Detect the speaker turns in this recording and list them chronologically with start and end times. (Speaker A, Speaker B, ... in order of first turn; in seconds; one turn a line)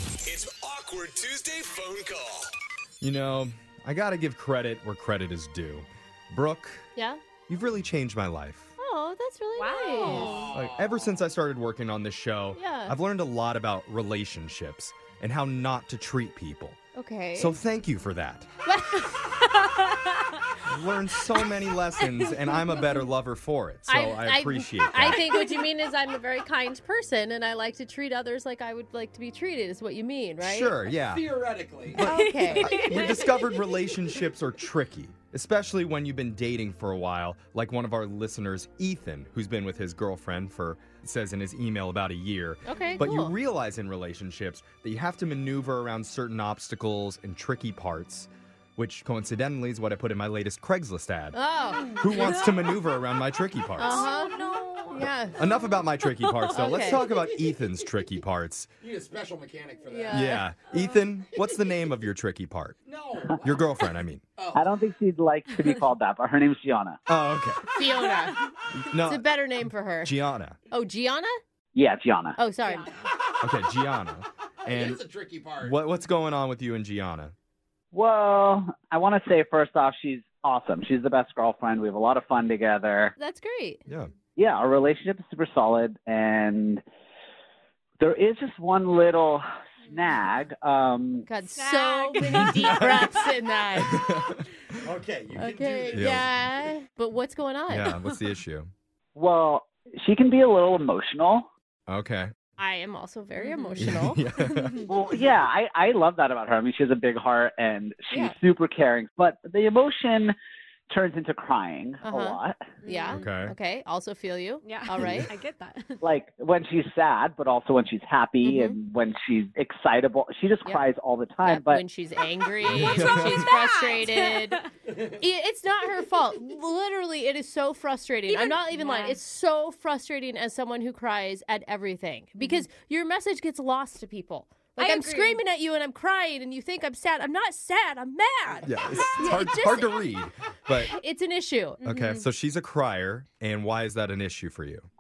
Speaker A: 0.4-2.4
Speaker B: 3.0-6.9
Speaker B: 7.5-8.7
Speaker C: 8.8-10.4
Speaker D: 9.6-10.5
Speaker E: 10.1-11.1
Speaker B: 10.5-16.8
Speaker C: 12.6-13.0
Speaker C: 16.9-17.6
Speaker B: 17.4-18.5
Speaker C: 18.6-19.2
Speaker D: 19.4-20.2
Speaker B: 20.7-25.2
Speaker D: 22.0-23.0
Speaker C: 23.9-30.8
Speaker D: 25.3-25.7
Speaker B: 30.4-31.3
Speaker E: 30.9-32.0
Speaker B: 31.9-51.4
Speaker C: 32.0-33.0
Speaker D: 32.0-33.7
Speaker C: 42.7-43.4
Speaker C: 51.3-52.4
Speaker D: 51.7-52.8
Speaker B: 52.0-54.1
Speaker C: 53.8-55.4
Speaker D: 53.8-57.2
Speaker B: 55.4-58.7
Speaker C: 56.5-57.0
Speaker E: 58.8-60.3
Speaker C: 59.9-60.5
Speaker B: 60.1-62.8
Speaker E: 62.9-63.6
Speaker B: 63.4-64.2
Speaker E: 64.4-64.7
Speaker F: 64.5-67.0
Speaker B: 67.1-67.6
Speaker C: 67.8-68.4
Speaker D: 67.8-68.5
Speaker B: 68.7-69.2
Speaker C: 69.0-70.2
Speaker B: 70.0-70.6
Speaker C: 70.7-71.4
Speaker F: 71.8-72.4
Speaker C: 72.4-72.9
Speaker B: 73.4-75.0
Speaker E: 74.7-75.8
Speaker B: 75.6-77.3
Speaker F: 77.9-83.1
Speaker C: 83.2-83.8
Speaker F: 84.4-86.8
Speaker F: 88.0-91.3
Speaker C: 91.3-94.0
Speaker D: 91.5-93.3
Speaker B: 92.5-93.1
Speaker B: 93.8-94.4
Speaker E: 94.8-96.1
Speaker C: 95.4-98.0
Speaker B: 95.9-96.3
Speaker B: 97.7-98.7
Speaker F: 99.2-101.5
Speaker B: 101.9-102.3
Speaker C: 102.6-104.2
Speaker D: 103.4-103.9
Speaker B: 103.8-104.8
Speaker D: 104.5-104.9
Speaker F: 104.9-110.3
Speaker C: 108.1-108.4
Speaker F: 110.9-112.7
Speaker C: 112.0-115.3
Speaker D: 112.8-113.2
Speaker B: 113.1-113.5
Speaker D: 114.6-116.0
Speaker B: 115.0-115.3
Speaker F: 116.0-121.8
Speaker C: 118.4-118.8
Speaker C: 121.4-124.6
Speaker B: 122.6-123.5
Speaker D: 122.8-124.7
Speaker C: 125.2-140.0
Speaker D: 128.3-129.2
Speaker D: 132.4-132.7
Speaker D: 134.8-135.4
Speaker B: 138.7-140.9
Speaker C: 140.8-141.8
Speaker B: 141.8-144.9
Speaker D: 141.8-142.3